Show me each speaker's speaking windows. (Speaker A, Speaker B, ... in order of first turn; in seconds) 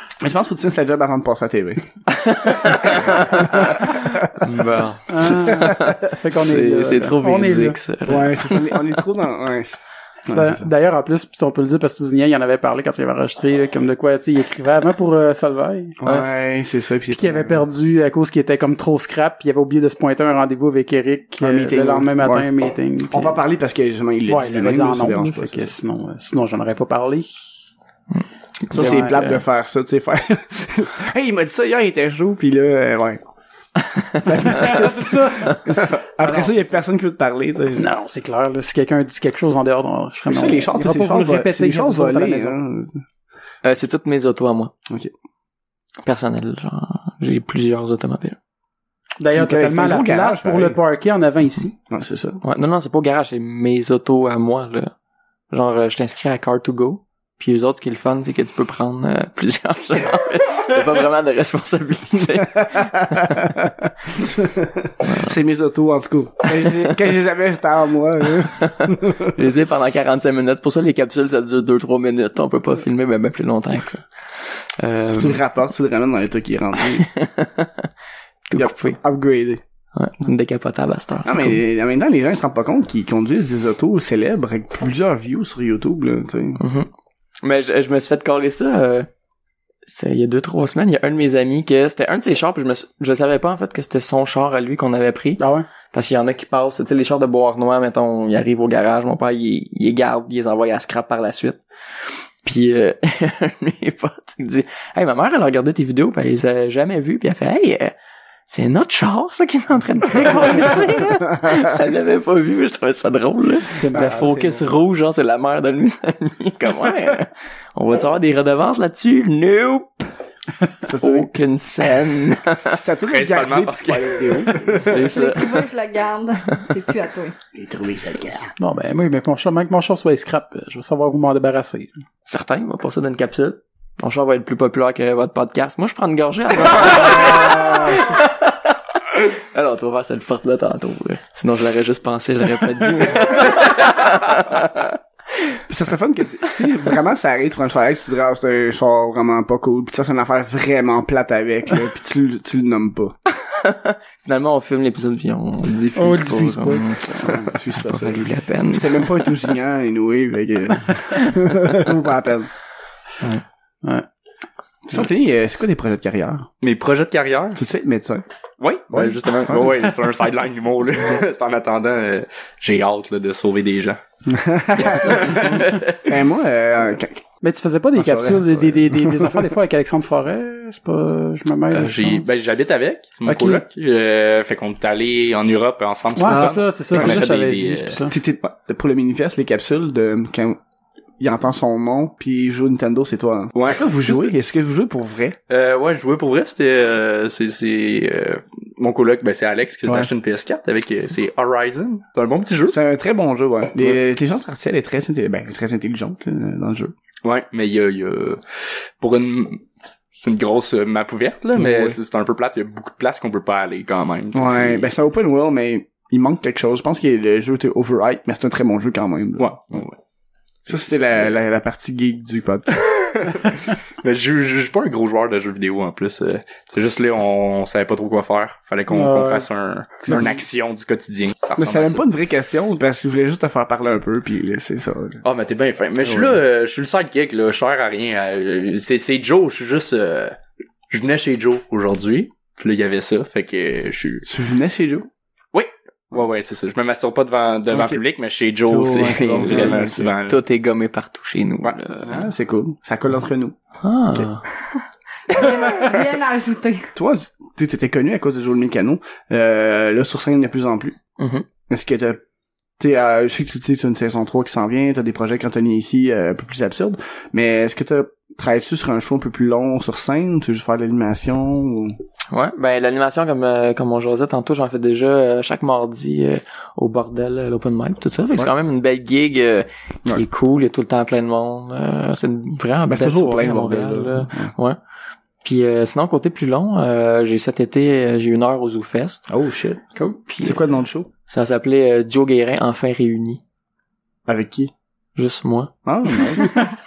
Speaker A: 0.2-4.6, 5.3-6.0, 8.1-10.7, 16.0-17.7, 21.4-22.5, 23.1-25.7, 28.7-33.2, 34.2-37.9, 40.3-43.0, 49.4-50.8, 51.9-52.4, 62.8-69.3, 75.2-77.1, 78.6-79.6, 81.2-86.6, 114.1-114.4, 120.9-121.5, 122.7-125.0, 127.5-128.6, 136.8-138.2, 145.7-153.2, 157.1-162.5, 164.9-166.5, 167.6-168.2, 168.9-169.9, 174.2-177.2, 177.9-179.5, 186.2-187.3, 188.1-190.6, 191.2-195.4, 202.7-206.9, 211.6-212.0, 214.3-219.8, 220.7-222.9, 231.6-235.2, 236.0-236.4, 244.2-245.1, 247.7-248.0, 248.7-250.1, 252.0-253.6, 257.0-261.0, 261.7-262.2, 262.8-272.0, 282.9-284.5, 289.3-289.8, 290.4-291.1, 294.3-294.7, 295.9-296.5
Speaker B: 2.1-8.9, 28.1-29.4, 43.6-44.7, 46.0-48.4, 52.4-54.9, 55.5-63.7, 65.0-65.4, 68.6-75.4, 77.0-77.9, 78.5-79.0, 79.9-81.6, 86.6-86.9, 87.4-89.1, 89.9-101.6, 102.4-108.0, 108.5-120.1, 121.0-122.8, 124.8-125.7, 132.3-145.0, 153.3-159.4, 248.9-252.2, 253.8-254.4, 261.2-261.5, 272.3-284.8, 285.4-289.3, 290.3-290.7, 291.3-293.4, 295.2-295.7
Speaker C: 5.1-7.8, 10.3-16.0, 17.1-23.4, 24.3-27.4, 28.7-29.2, 34.4-36.8, 37.8-42.6, 49.2-51.7, 95.4-95.7, 113.7-114.6, 128.6-131.9, 155.9-157.1, 177.4-182.2, 183.3-183.6, 186.2-188.1, 228.9-229.5, 230.0-230.3
Speaker D: 123.1-124.8, 166.6-167.6, 168.6-174.0, 174.9-176.0, 181.7-188.0, 193.6-194.3, 195.5-202.8, 207.2-208.4, 209.0-209.6, 210.1-214.9, 219.4-220.0, 220.7-221.4, 222.8-232.0, 235.2-240.4, 240.9-244.3, 245.5-250.4
Speaker E: 124.9-127.3, 255.3-256.9